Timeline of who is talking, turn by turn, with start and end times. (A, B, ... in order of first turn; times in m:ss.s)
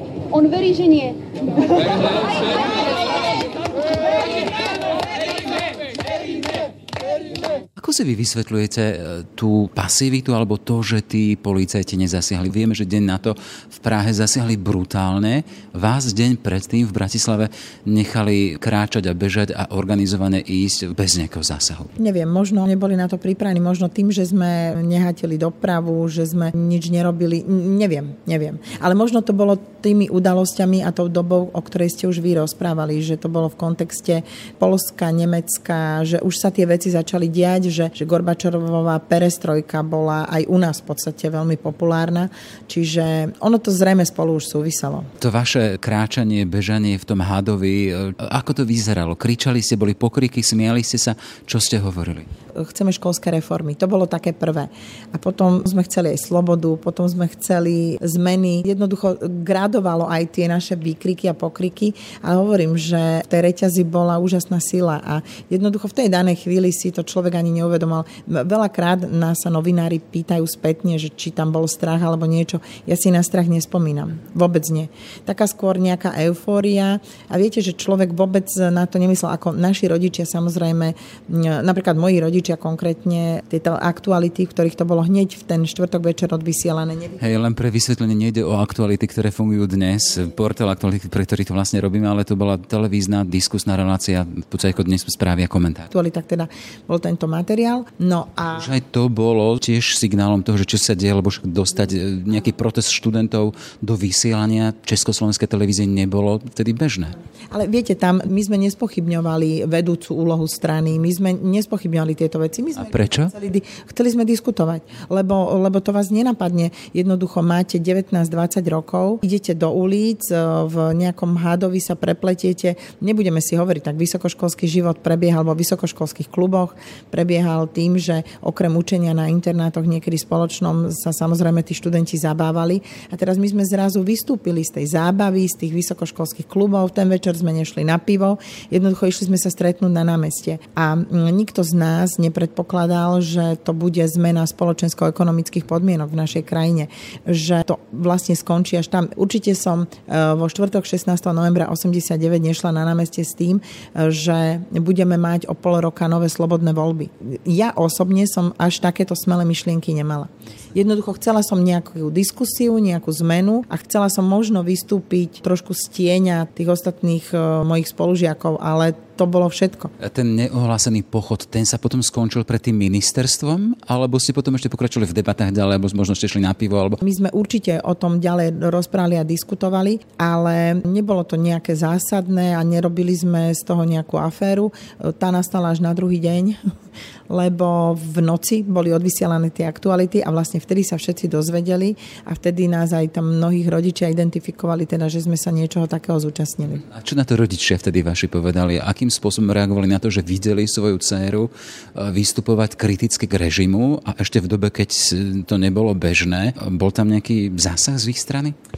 0:00.3-0:02.5 A
0:07.8-0:21.9 B
0:22.0-0:45.1 C
0:45.2-0:52.3 B
0:52.6-1:27.2 C
1:27.2-1:35.9 B
1:35.9-1:38.7 C
1:38.5-1:47.2 B
1:47.5-2:49.9 C
1:52.7-1:53.3 B
2:50.0-2:57.0 B
2:57.0-3:06.6 C
3:07.3-3:16.8 C
3:16.8-3:28.6 B